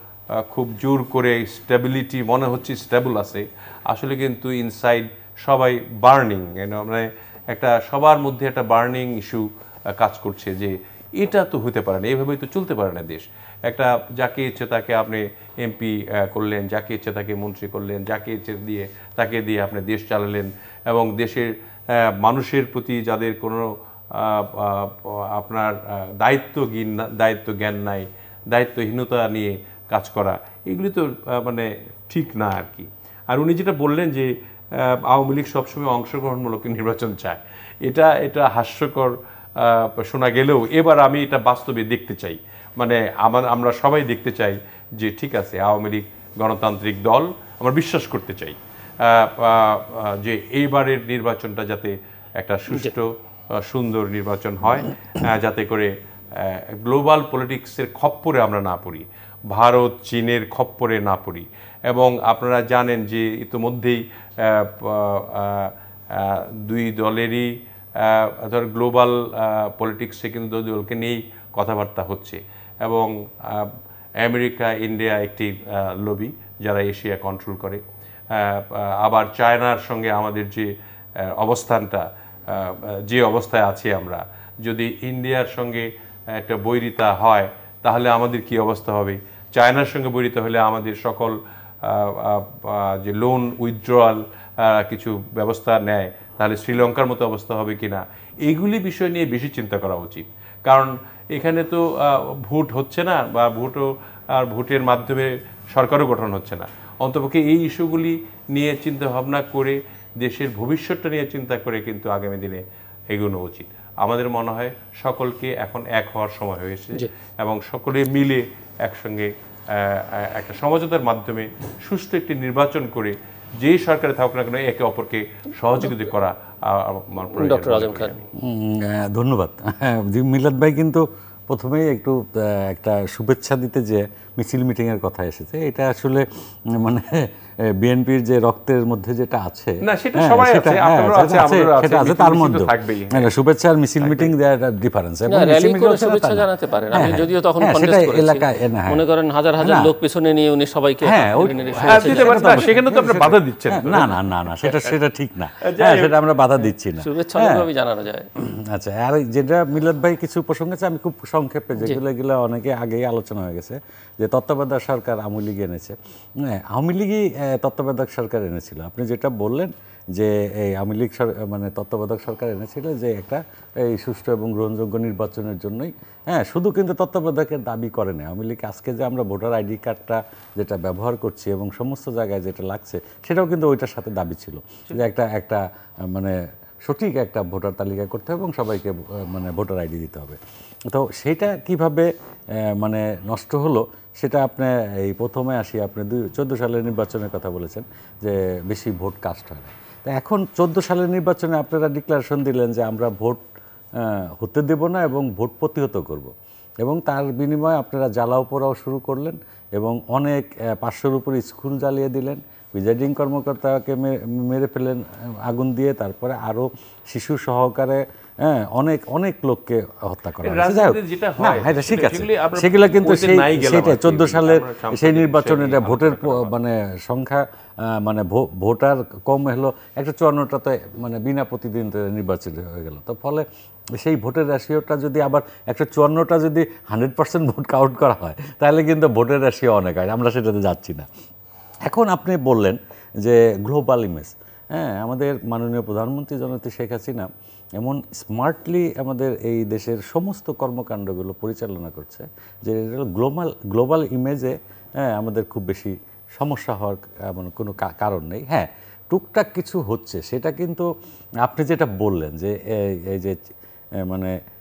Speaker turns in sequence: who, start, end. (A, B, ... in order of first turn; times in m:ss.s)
0:00.4-2:08.3 A
2:07.4-2:08.1 B
2:08.4-2:29.0 C
2:19.8-2:23.3 A
2:24.0-2:24.3 A
2:25.3-2:32.8 B
2:29.6-2:29.9 C
2:31.0-2:37.6 C
2:31.9-2:34.9 A
2:35.6-2:36.1 A
2:36.9-2:38.3 B
2:38.4-3:23.4 C
3:24.0-3:26.3 C
3:26.8-3:53.4 C
3:40.4-3:46.5 A
3:54.0-4:01.1 C
4:01.9-4:20.9 C
4:21.4-4:23.4 C
4:24.0-4:24.4 C